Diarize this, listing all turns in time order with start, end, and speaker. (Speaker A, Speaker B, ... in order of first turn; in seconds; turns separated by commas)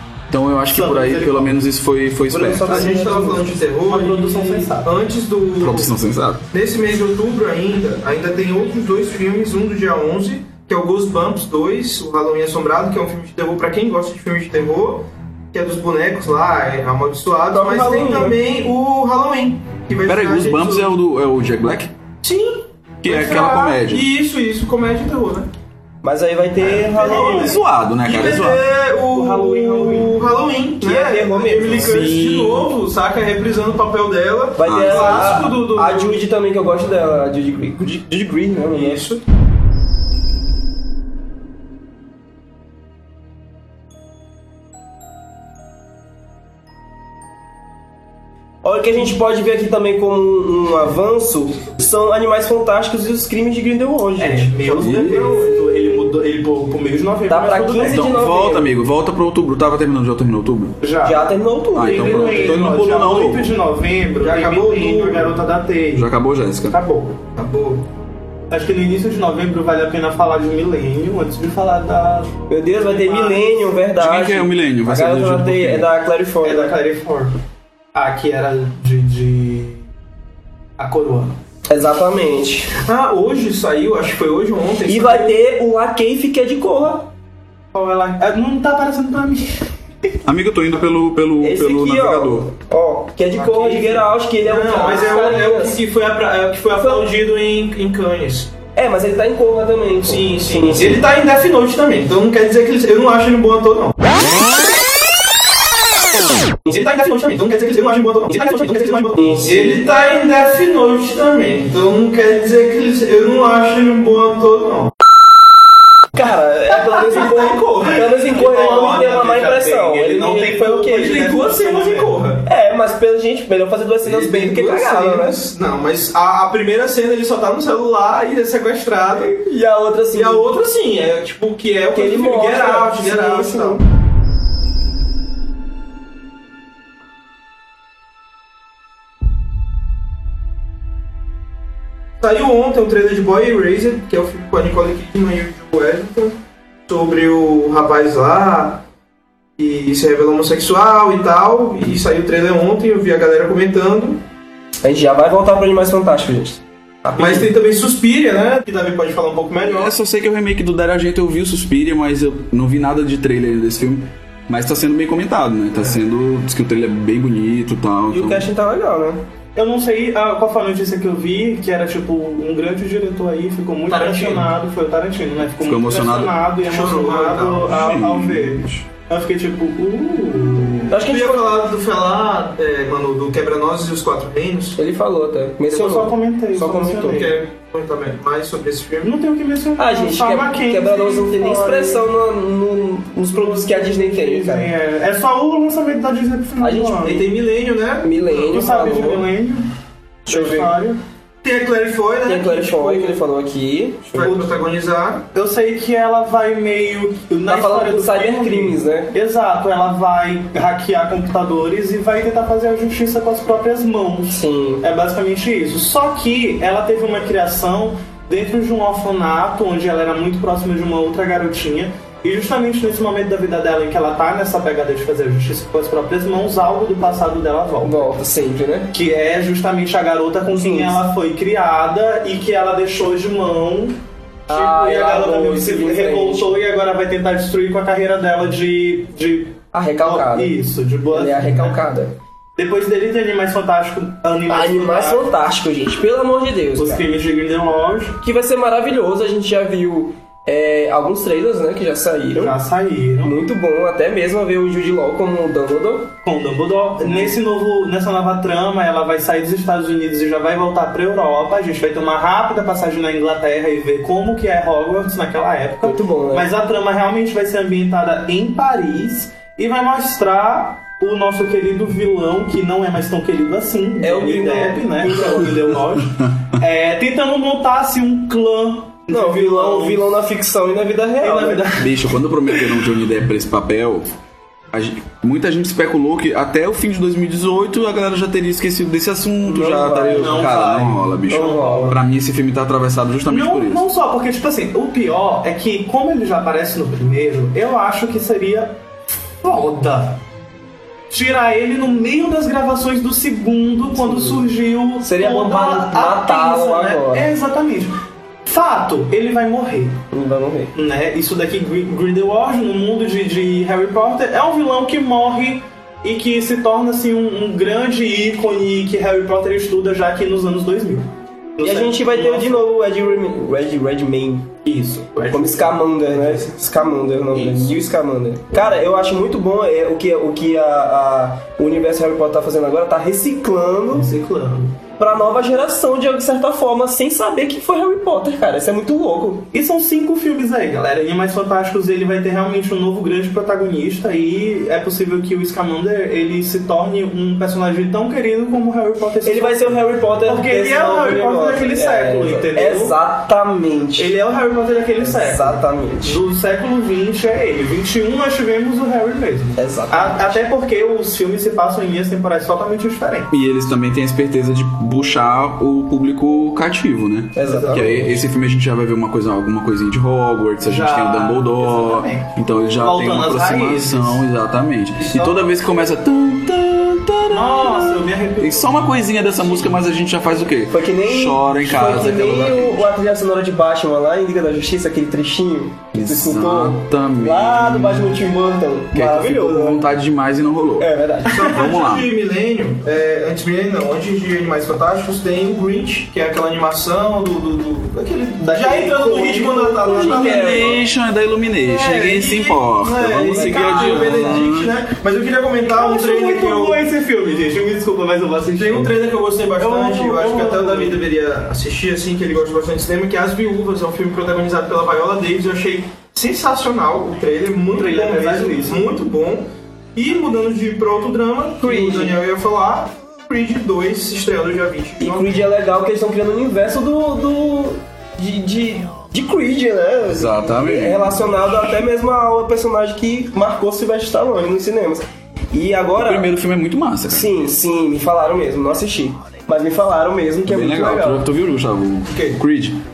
Speaker A: 0.3-2.9, Speaker B: 0.7-1.6, Speaker C: 2.3-3.6, Speaker D: 2.6-5.9, Speaker B: 3.9-4.9, Speaker A: 5.6-6.5, Speaker D: 6.5-20.9, Speaker C: 17.5-18.4, Speaker A: 20.0-21.9, Speaker D: 22.2-25.5, Speaker A: 23.0-24.1, Speaker C: 26.0-27.6, Speaker D: 26.6-36.2, Speaker B: 27.0-27.6, Speaker A: 27.2-28.6, Speaker B: 29.1-30.2, Speaker C: 30.8-32.1, Speaker A: 31.7-32.7, Speaker C: 34.6-39.0, Speaker A: 34.6-35.3, Speaker D: 38.7-39.2, Speaker C: 48.6-54.5, Speaker B: 54.2-58.2, Speaker D: 54.6-55.5, Speaker A: 54.8-55.3, Speaker C: 57.3-58.7, Speaker A: 57.9-60.8, Speaker B: 60.8-66.1, Speaker C: 61.0-62.6, Speaker A: 61.7-63.5, Speaker D: 64.2-65.4, Speaker A: 66.0-66.8, Speaker B: 66.7-67.2, Speaker D: 67.3-67.8, Speaker B: 68.5-73.5, Speaker C: 72.5-76.8, Speaker A: 74.0-75.9, Speaker B: 76.4-77.3, Speaker B: 77.9-79.8, Speaker B: 80.8-81.3, Speaker C: 81.7-82.8, Speaker D: 82.8-85.4, Speaker C: 84.8-87.1, Speaker B: 87.7-89.6, Speaker A: 90.2-92.5, Speaker C: 91.4-95.8, Speaker D: 93.3-98.5, Speaker C: 96.7-97.1, Speaker C: 98.7-101.0, Speaker D: 100.0-104.0, Speaker D: 106.7-114.9, Speaker C: 108.0-109.9, Speaker C: 116.1-121.3, Speaker D: 116.7-118.6, Speaker B: 118.1-122.3, Speaker D: 120.9-122.5, Speaker C: 122.4-125.4, Speaker D: 124.0-129.3, Speaker C: 129.1-130.5, Speaker D: 130.1-133.8, Speaker C: 131.9-133.8, Speaker D: 142.2-146.3, Speaker D: 146.9-148.8, Speaker D: 149.6-154.2, Speaker C: 154.8-157.5, Speaker D: 157.1-159.9, Speaker A: 159.6-168.5, Speaker D: 165.7-166.0, Speaker C: 168.1-169.2, Speaker B: 169.6-180.9, Speaker D: 173.9-174.5, Speaker A: 175.6-176.4, Speaker D: 176.6-177.7, Speaker A: 177.7-178.8, Speaker C: 180.9-181.5, Speaker D: 181.0-184.8, Speaker C: 184.8-187.3, Speaker B: 185.7-187.3, Speaker D: 187.0-189.1, Speaker B: 189.0-192.0, Speaker C: 189.8-194.7, Speaker B: 193.3-197.2, Speaker C: 196.6-197.2, Speaker D: 197.0-198.2, Speaker C: 198.0-199.3, Speaker B: 198.5-199.7, Speaker C: 200.3-200.7, Speaker B: 200.3-201.0, Speaker D: 201.4-203.2, Speaker C: 202.2-204.3, Speaker D: 204.1-205.2, Speaker B: 204.2-204.5, Speaker B: 205.3-228.1, Speaker C: 207.5-209.1, Speaker C: 214.3-214.8, Speaker C: 227.8-228.9, Speaker B: 228.9-233.9, Speaker C: 230.5-231.0, Speaker C: 234.5-236.6, Speaker B: 234.5-241.8, Speaker C: 239.7-240.5, Speaker C: 241.1-242.2, Speaker B: 242.6-245.2, Speaker C: 244.5-247.1, Speaker B: 246.8-248.2, Speaker C: 248.2-252.6, Speaker B: 252.3-253.3, Speaker C: 253.2-256.1, Speaker B: 256.2-280.1, Speaker C: 257.0-257.3, Speaker C: 265.8-266.5, Speaker C: 274.0-275.7, Speaker C: 279.1-281.7, Speaker B: 281.2-281.9, Speaker A: 281.8-284.1, Speaker A: 284.7-293.8, Speaker C: 289.4-290.5, Speaker B: 290.2-292.0, Speaker C: 291.3-292.0, Speaker B: 293.3-298.8, Speaker B: 299.4-300.2, Speaker B: 301.1-307.9, Speaker C: 304.0-304.4, Speaker C: 305.0-307.3, Speaker B: 308.4-310.0, Speaker C: 310.1-310.7, Speaker B: 310.7-322.6, Speaker C: 321.6-324.5, Speaker B: 324.6-326.4, Speaker C: 325.3-334.1, Speaker B: 333.9-334.8, Speaker C: 335.0-339.5, Speaker B: 339.5-349.7, Speaker C: 349.2-354.1, Speaker B: 350.2-352.9, Speaker B: 354.0-363.3, Speaker C: 355.0-356.2, Speaker C: 359.6-360.4, Speaker A: 363.3-382.9, Speaker C: 367.4-368.2, Speaker B: 370.6-374.2, Speaker D: 375.0-375.3, Speaker B: 377.3-379.8, Speaker C: 380.7-389.9, Speaker A: 385.9-388.2, Speaker A: 388.9-390.9, Speaker C: 390.8-391.5, Speaker D: 391.3-400.8, Speaker A: 391.4-392.1, Speaker B: 398.4-400.4, Speaker C: 399.8-400.8, Speaker A: 399.9-404.7, Speaker D: 401.6-406.8, Speaker C: 403.2-404.4, Speaker B: 405.7-408.9, Speaker D: 408.5-425.4, Speaker B: 409.6-411.0, Speaker B: 417.7-418.9, Speaker C: 421.6-422.2, Speaker C: 425.0-436.3, Speaker A: 430.1-431.5, Speaker A: 436.0-437.3, Speaker C: 437.1-441.3, Speaker A: 440.5-442.8, Speaker D: 442.1-442.4